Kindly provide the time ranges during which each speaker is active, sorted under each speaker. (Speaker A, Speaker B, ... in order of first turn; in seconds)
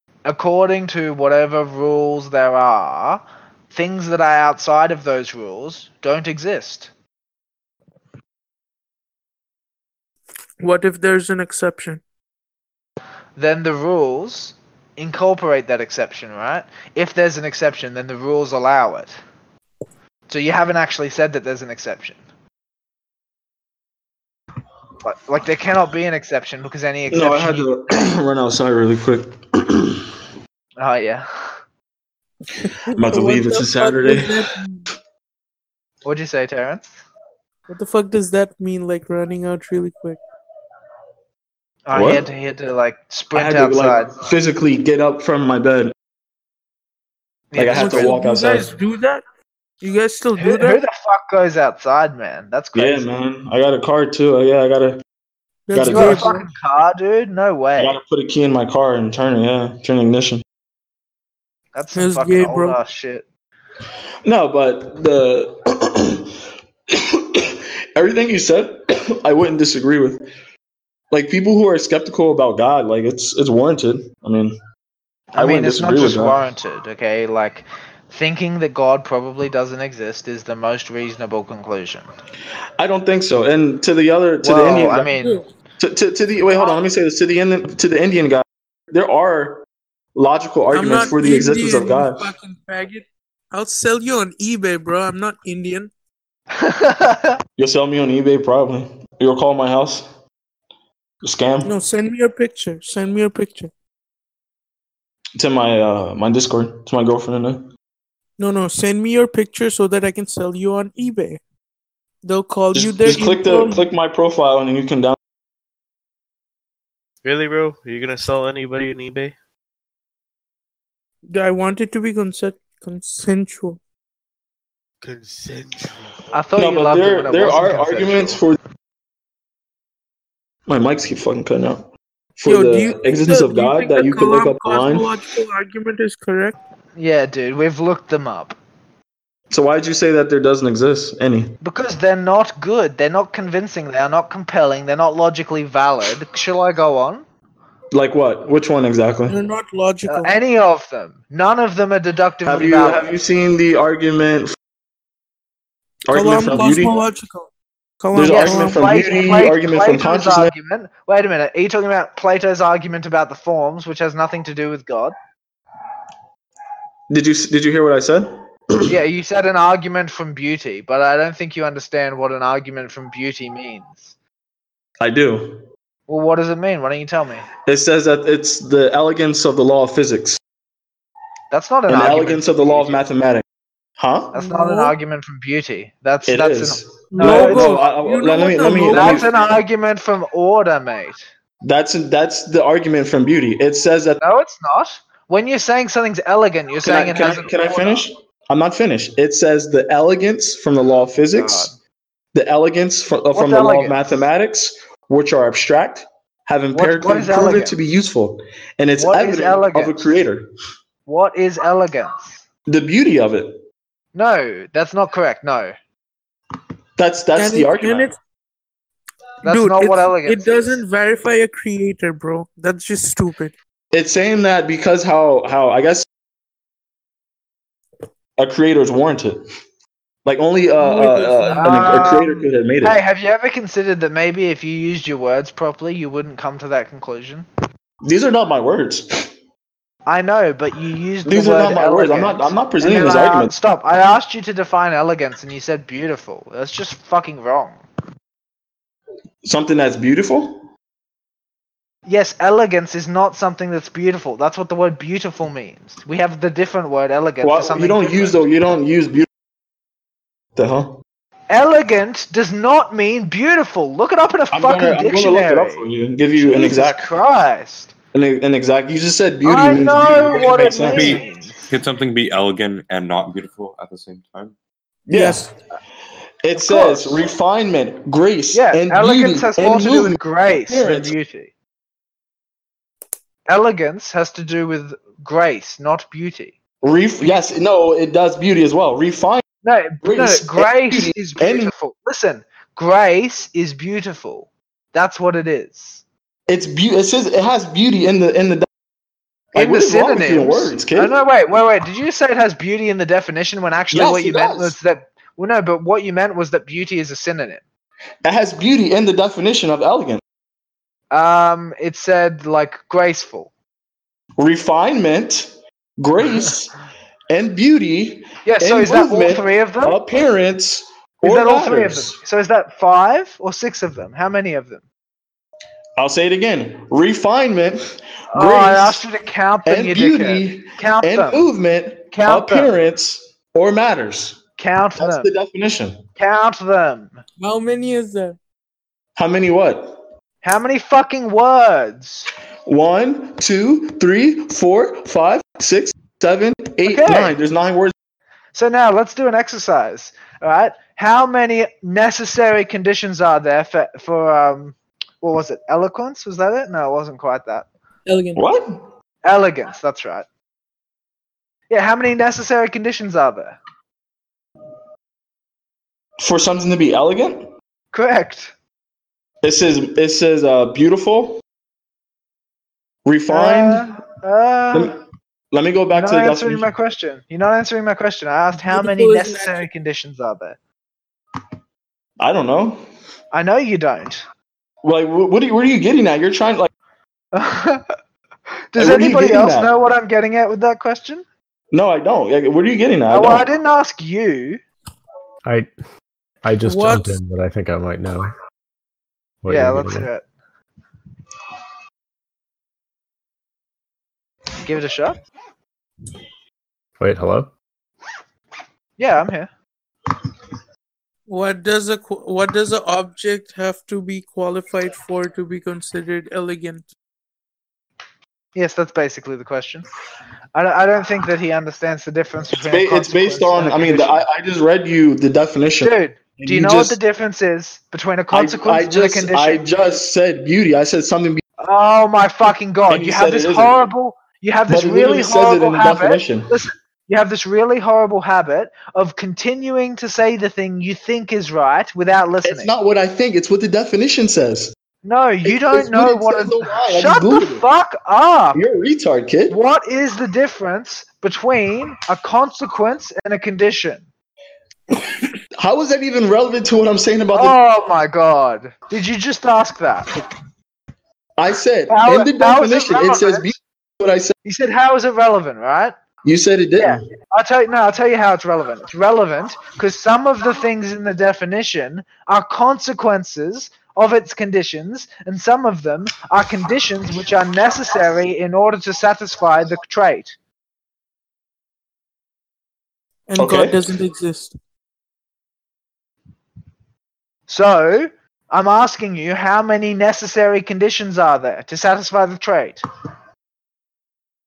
Speaker A: 0.2-6.9, 13.4-19.2, 20.3-22.2, 25.0-27.7, 30.8-31.3, 36.0-37.0, 41.9-44.1, 47.5-48.2, 50.4-53.1, 55.9-58.0, 61.7-63.2, 75.3-82.1, 84.4-85.4, 96.5-97.4, 126.3-128.4, 136.9-138.6, 141.6-147.2, 150.1-153.0, 158.2-165.1, 168.9-174.1, 176.1-177.4, 181.5-183.0, 184.3-187.8, 188.9-191.2, 194.2-198.0, 201.3-201.7, 203.3-204.2, 206.7-207.7, 208.9-210.2, 211.1-212.4, 214.1-215.7, 219.4-220.8, 231.6-237.5, 240.1-247.8, 252.1-258.4, 261.5-267.9, 269.4-271.7, 276.6-277.2, 278.5-281.5, 283.4-286.6, 289.6-296.0, 299.5-307.6, 311.1-313.5, 318.4-320.0, 321.2-324.8, 328.3-331.4, 332.1-332.7, 334.6-335.3, 336.2-337.2, 340.4-342.3, 346.8-347.4, 348.5-357.7, 359.2-360.2, 361.7-363.6, 367.9-368.5, 373.3-374.9, 375.9-380.6, 383.3-384.2, 387.3-387.9, 388.7-391.2, 393.1-394.6, 399.5-400.2, 404.6-405.2, 409.0-409.5, 418.5-419.8, 420.5-424.2, 425.8-429.6, 431.6-442.7, 445.0-448.6, 449.5-454.1, 457.3-460.1, 461.9-463.5, 464.4-465.9, 466.8-480.3, 487.5-492.8
Speaker B: 10.6-12.0, 32.7-34.9, 37.7-40.2, 47.7-49.2, 49.8-50.8, 55.7-56.5, 62.0-62.8, 85.2-85.4, 90.7-95.9, 101.6-103.7, 108.4-111.4, 112.2-113.8, 121.3-123.8, 132.4-136.6, 149.3-150.3, 156.1-157.5, 158.0-159.0, 184.3-184.9, 187.1-189.3, 217.3-218.2, 219.4-223.5, 230.8-232.3, 275.1-275.5, 337.4-338.4, 358.1-358.4, 378.5-379.6, 396.6-397.2, 411.3-416.9, 483.3-484.5
Speaker C: 27.1-30.1, 32.9-34.5, 41.9-42.2, 43.3-45.9, 47.5-48.7, 52.7-55.0, 55.7-56.3, 57.8-60.4, 64.2-66.3, 66.9-70.2, 71.1-74.6, 75.3-76.3, 82.8-85.1, 85.8-92.3, 97.6-100.1, 101.2-101.7, 105.3-107.7, 112.7-115.2, 126.5-128.6, 130.7-135.1, 139.5-141.6, 147.9-149.4, 152.4-154.6, 156.1-156.9, 158.1-160.5, 167.1-168.9, 175.0-175.6, 177.7-180.4, 181.9-183.4, 184.0-184.3, 186.2-189.3, 191.6-194.2, 196.8-201.7, 202.3-210.5, 212.7-213.6, 217.0-218.1, 223.9-226.1, 228.4-229.4, 230.2-233.0, 238.0-239.3, 241.2-243.5, 249.4-250.7, 257.4-259.3, 260.6-261.0, 264.5-267.1, 268.1-271.2, 275.1-275.5, 276.4-281.1, 286.8-289.4, 290.0-291.7, 296.5-298.7, 299.5-301.1, 303.9-304.8, 308.2-310.2, 314.4-316.7, 317.3-322.2, 326.0-329.1, 329.6-334.4, 335.0-336.0, 339.1-340.0, 342.6-347.9, 358.3-358.8, 366.2-367.5, 369.4-371.4, 373.0-373.9, 375.5-376.7, 382.2-382.8, 384.8-386.7, 388.8-389.7, 391.7-393.4, 422.7-427.0, 428.3-431.4, 432.9-433.9, 434.7-436.5, 442.4-444.7, 445.4-447.6, 448.5-449.5, 455.5-457.6, 461.4-464.3, 466.2-467.0, 483.4-483.8
Speaker D: 117.2-119.3, 125.0-126.2
Speaker E: 270.8-274.5
Speaker F: 395.4-395.7, 396.4-398.3, 399.4-400.1, 407.0-407.5